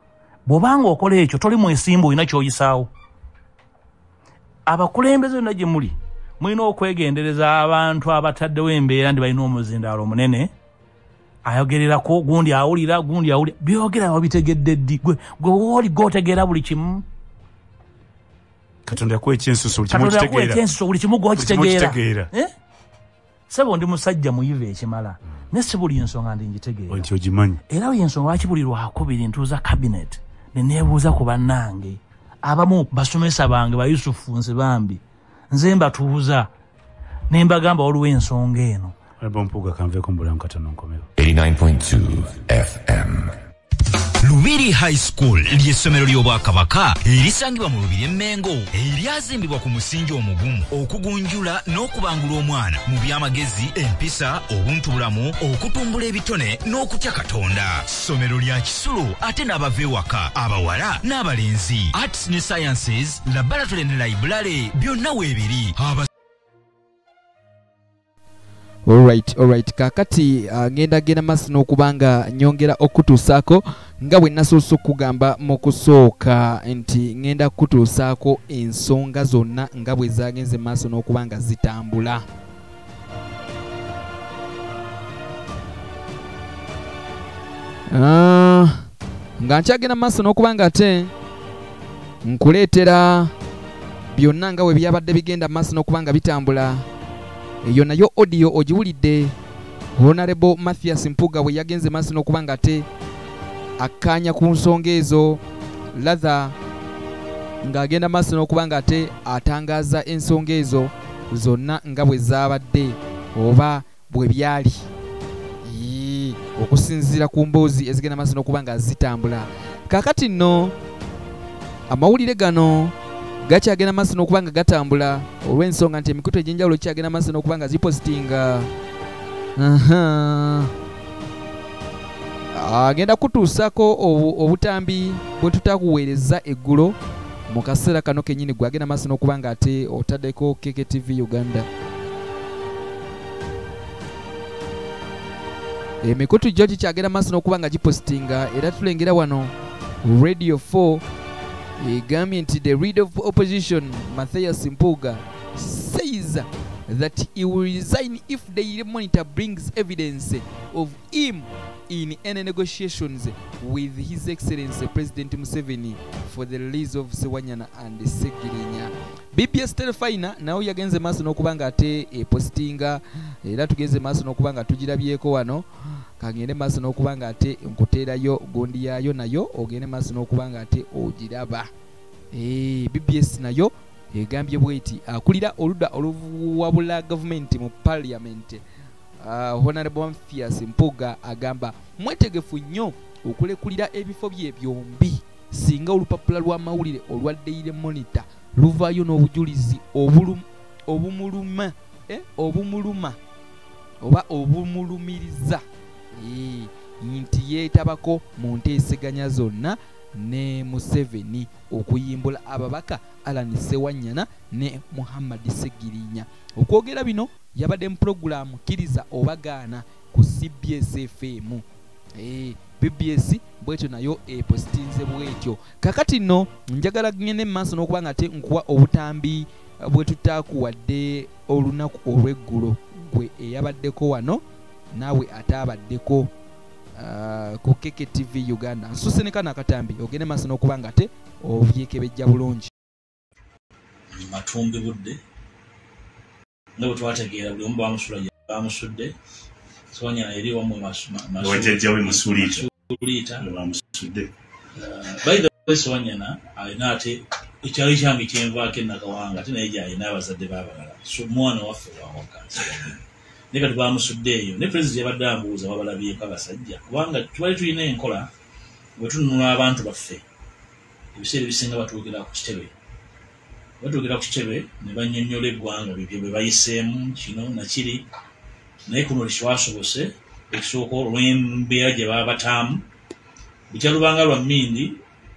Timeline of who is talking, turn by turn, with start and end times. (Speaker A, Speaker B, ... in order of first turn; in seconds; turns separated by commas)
Speaker A: 0.5-2.9, Speaker A: 4.7-10.5, Speaker A: 11.4-17.0, Speaker B: 18.9-20.6, Speaker A: 19.9-22.5, Speaker B: 21.3-22.3, Speaker A: 23.5-27.1, Speaker B: 26.9-27.6, Speaker A: 27.7-36.5, Speaker A: 37.3-38.9, Speaker B: 39.2-41.1, Speaker C: 41.2-43.4, Speaker D: 44.2-66.1, Speaker E: 68.9-82.2, Speaker E: 87.9-88.9, Speaker E: 89.4-91.1, Speaker E: 92.2-93.3, Speaker E: 94.1-96.8, Speaker E: 97.6-99.3, Speaker E: 100.0-102.8, Speaker E: 103.8-105.4, Speaker E: 105.9-106.5, Speaker E: 107.6-114.9, Speaker E: 115.6-120.7, Speaker E: 121.9-122.9, Speaker E: 123.5-128.7, Speaker E: 129.6-130.7, Speaker E: 132.5-136.9, Speaker E: 137.5-141.7, Speaker E: 146.0-151.0, Speaker E: 151.8-175.7, Speaker E: 176.2-181.7, Speaker E: 182.3-188.6, Speaker E: 189.2-203.2, Speaker E: 204.0-205.6, Speaker E: 206.2-221.6, Speaker E: 222.2-234.4, Speaker E: 234.9-236.3, Speaker E: 237.0-242.7, Speaker A: 244.1-245.2, Speaker A: 246.8-249.1, Speaker A: 249.9-253.5, Speaker B: 251.4-252.7, Speaker B: 253.4-254.3, Speaker A: 254.8-263.0, Speaker A: 263.5-268.3, Speaker A: 269.0-270.2, Speaker A: 271.1-272.7, Speaker A: 273.8-278.0, Speaker A: 278.9-282.8, Speaker A: 283.7-285.0